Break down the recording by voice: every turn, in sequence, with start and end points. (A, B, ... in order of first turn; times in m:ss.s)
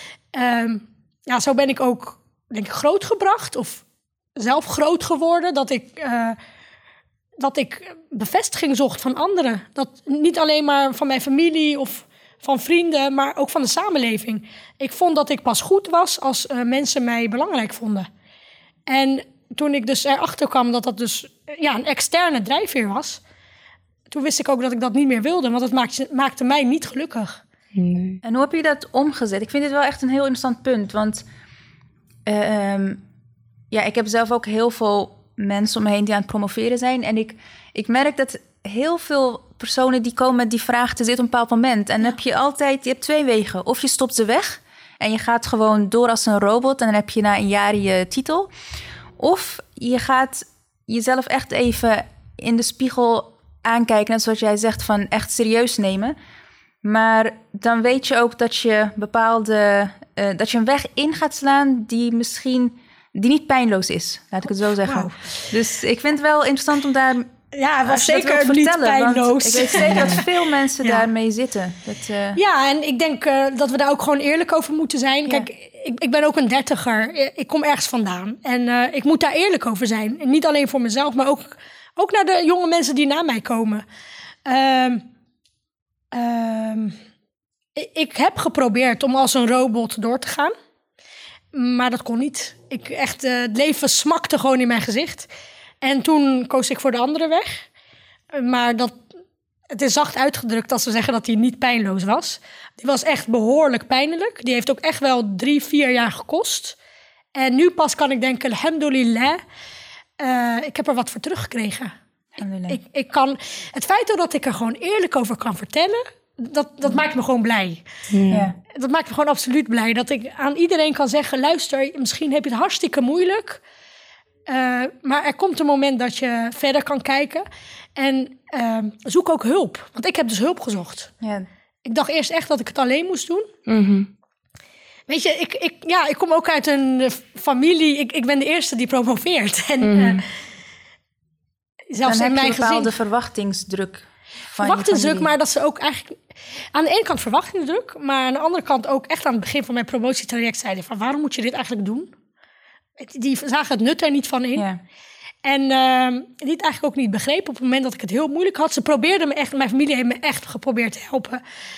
0:00.3-0:03.8 A
0:04.4-0:06.4 A
0:07.4-0:18.1 A
0:18.9-0:23.2 A
0:24.1-0:27.4 A
0:27.7-0:28.2 B
0:28.2-0:31.2 C
0:32.3-0:33.0 C
0:33.7-0:48.5 C
0:49.2-0:56.1 C
0:56.8-1:07.3 C
1:04.8-1:05.5 A
1:07.5-1:10.3 A
1:07.8-1:12.4 C
1:09.9-1:10.2 B
1:12.3-1:23.8 A
1:24.4-1:25.0 A
1:26.1-1:27.0 A
1:27.8-1:30.5 A
1:31.5-1:35.3 A
1:35.8-1:37.6 A
1:38.3-1:39.0 A
1:39.7-1:46.8 A
1:47.3-1:49.4 A
1:50.2-1:51.9 A
1:52.4-1:52.8 C
1:52.7-1:57.8 A
1:58.1-1:58.5 B
1:58.3-1:58.6 C
1:58.7-2:03.6 A
2:04.4-2:11.1 A
2:11.2-2:11.5 C
2:11.8-2:13.5 A
2:13.7-2:14.1 B
2:15.1-2:20.3 A
2:19.8-2:20.2 B
2:21.9-2:22.9 A
2:22.0-2:25.3 C
2:24.6-2:26.2 A
2:26.7-2:32.1 A
2:33.0-2:34.6 A
2:35.4-2:41.4 A